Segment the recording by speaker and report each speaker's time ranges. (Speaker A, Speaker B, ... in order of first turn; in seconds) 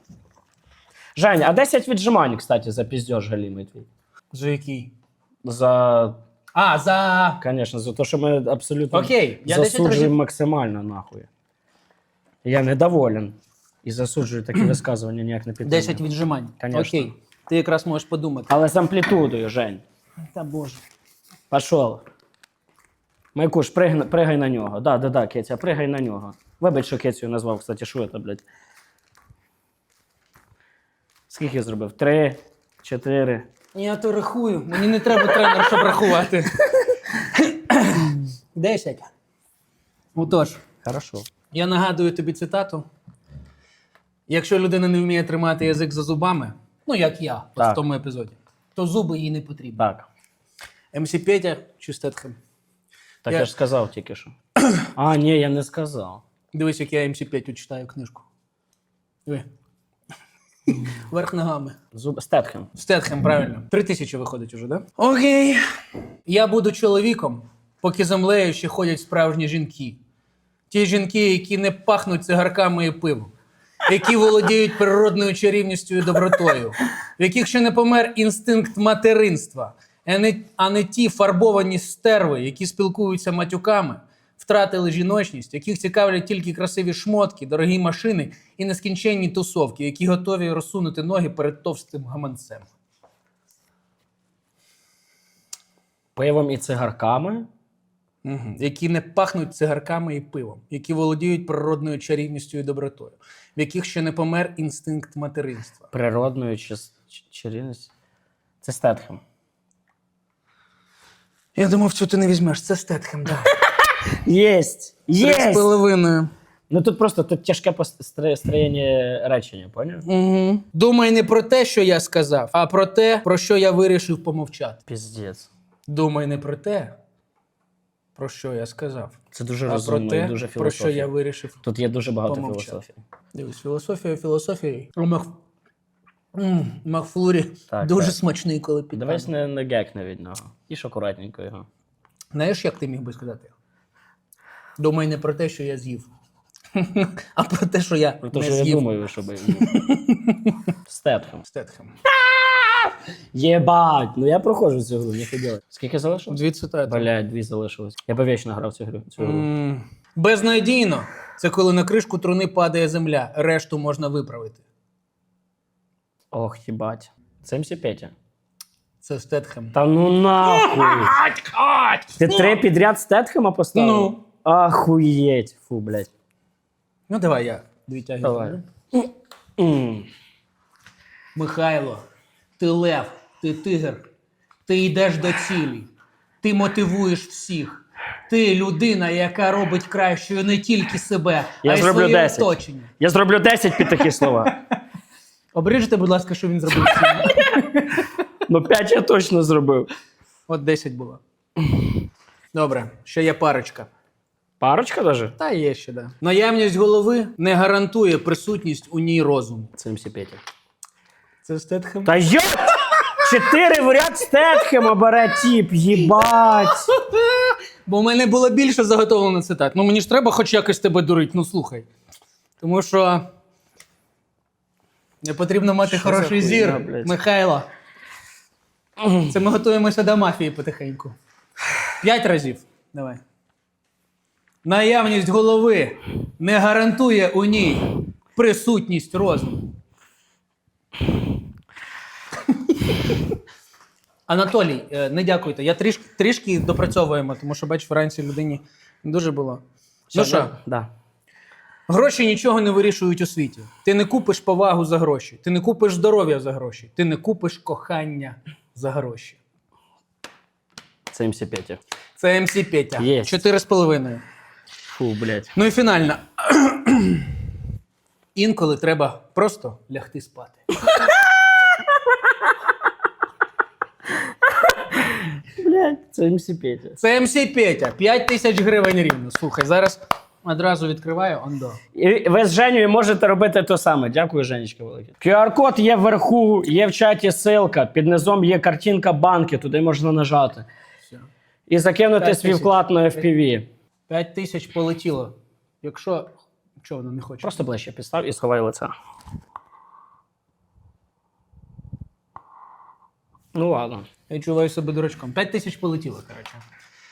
Speaker A: 1.1-3.9, 5.4-6.2, 7.4-11.3, 12.4-16.0, 16.6-17.1, 18.5-19.8, 21.5-22.0, 23.3-28.4, 31.3-33.5, 40.8-41.2, 49.8-50.0, 53.2-54.3, 54.9-56.2, 61.9-62.7, 96.1-97.5, 105.9-107.9, 108.6-109.2, 114.2-115.7, 116.7-120.0, 124.9-125.5, 129.3-131.1, 131.6-133.0, 137.7-138.2, 138.9-141.7, 148.2-149.7, 150.9-151.4, 152.3-159.5, 166.3-168.1, 169.7-171.1, 172.2-176.1, 178.2-180.1, 191.6-194.5, 198.5-199.9, 204.6-205.3, 209.8-210.4, 212.0-216.9, 225.8-227.1, 250.1-250.9, 261.1-261.8, 263.0-263.4, 264.9-265.5, 274.8-277.0, 281.9-290.7, 291.7-293.7, 297.4-298.9, 303.5-304.1
Speaker B: 4.3-4.9, 6.5-7.4, 8.9-10.1, 15.6-18.5, 20.3-20.8, 33.7-39.1, 40.1-40.6, 41.5-42.9, 44.3-49.8, 50.9-52.4, 53.3-53.5, 56.5-58.2, 60.7-61.8, 62.7-65.6, 66.3-70.0, 70.7-73.3, 73.9-92.7, 98.2-105.9, 111.5-113.5, 115.2-116.3, 120.0-124.8, 125.9-126.9, 128.2-131.6, 132.2-132.8, 133.3-135.3, 136.3-139.3, 142.3-143.5, 144.8-146.1, 146.7-148.8, 149.5-150.5, 151.4-151.9, 156.3-157.1, 159.2-164.6, 169.0-169.7, 170.4-172.6, 173.7-174.2, 177.1-178.6, 181.3-182.0, 182.6-184.1, 184.7-185.9, 186.4-192.9, 193.8-194.6, 195.5-198.0, 200.5-201.2, 202.5-203.9, 205.4-209.7, 211.4-212.2, 212.9-213.2, 216.0-221.9, 222.6-223.3, 225.2-227.7, 229.3-231.2, 232.0-233.2, 234.6-239.7, 242.5-243.2, 244.3-250.5, 251.9-259.4, 262.2-264.2, 265.5-267.3, 268.3-270.7, 277.0-281.8, 292.2-293.3, 294.1-297.6, 304.3-306.6